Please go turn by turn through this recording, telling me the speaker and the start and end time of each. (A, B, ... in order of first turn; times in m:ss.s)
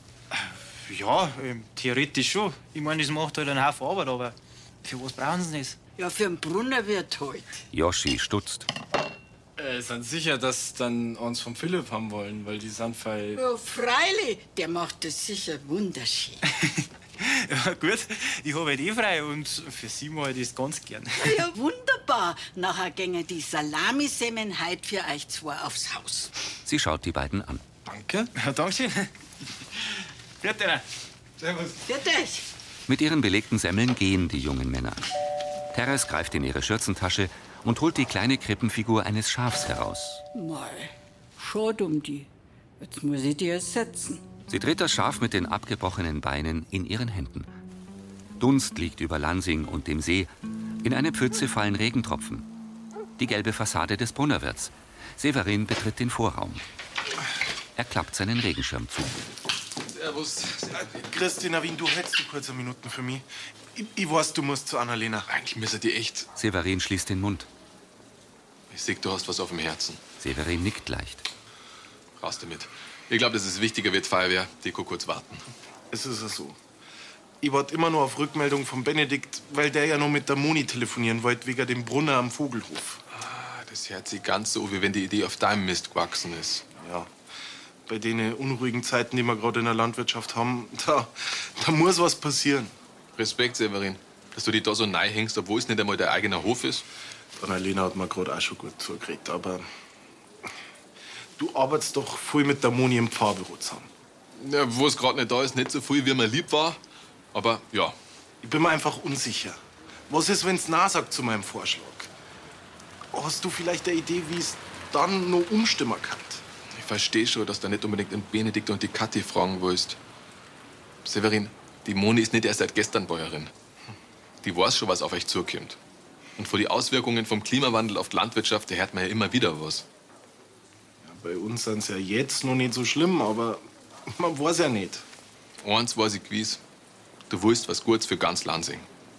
0:00.4-0:05.8 A
0:06.0-0:07.6 B
0:07.7-0:08.7 C
0:09.6-0:13.4 D
0:13.3-0:16.4 B
0:16.5-0:21.4 A
0:21.2-0:26.3 B
0:26.6-0:27.6 C
0:27.9-0:28.3 D
0:28.4-0:29.1 A
0:30.4-0:30.8 A
0:31.4-0:31.8 D
0:31.8-0:32.4 B
0:32.9-0:35.0 C
0:35.7-0:40.2 C
0:40.3-0:42.3 B
0:42.8-0:44.2 B
0:44.5-0:47.5 C
0:48.4-0:50.3 C
0:50.8-0:52.5 C
0:53.2-0:56.6 C
0:57.8-0:59.2 C
0:59.9-1:01.1 E
1:01.1-1:05.3 F
1:05.3-1:06.3 E
1:06.4-1:07.5 C
1:08.7-1:10.0 E
1:10.2-1:11.2 C
1:12.2-1:15.4 E
1:15.9-1:16.6 F
1:17.4-1:23.0 F
1:23.2-1:26.6 E
1:26.8-1:27.1 F
1:27.9-1:32.7 F
1:33.2-1:36.8 E
1:37.4-1:39.6 F
1:41.4-1:43.9 F
1:44.4-1:46.8 E
1:47.3-1:48.0 E
1:48.4-1:52.1 F
1:53.1-1:56.4 F
1:56.7-2:00.0 E
2:01.0-2:03.5 E
2:04.4-2:05.8 E
2:06.4-2:09.9 E
2:11.0-2:15.0 F
2:15.6-2:16.6 E
2:17.3-2:18.9 E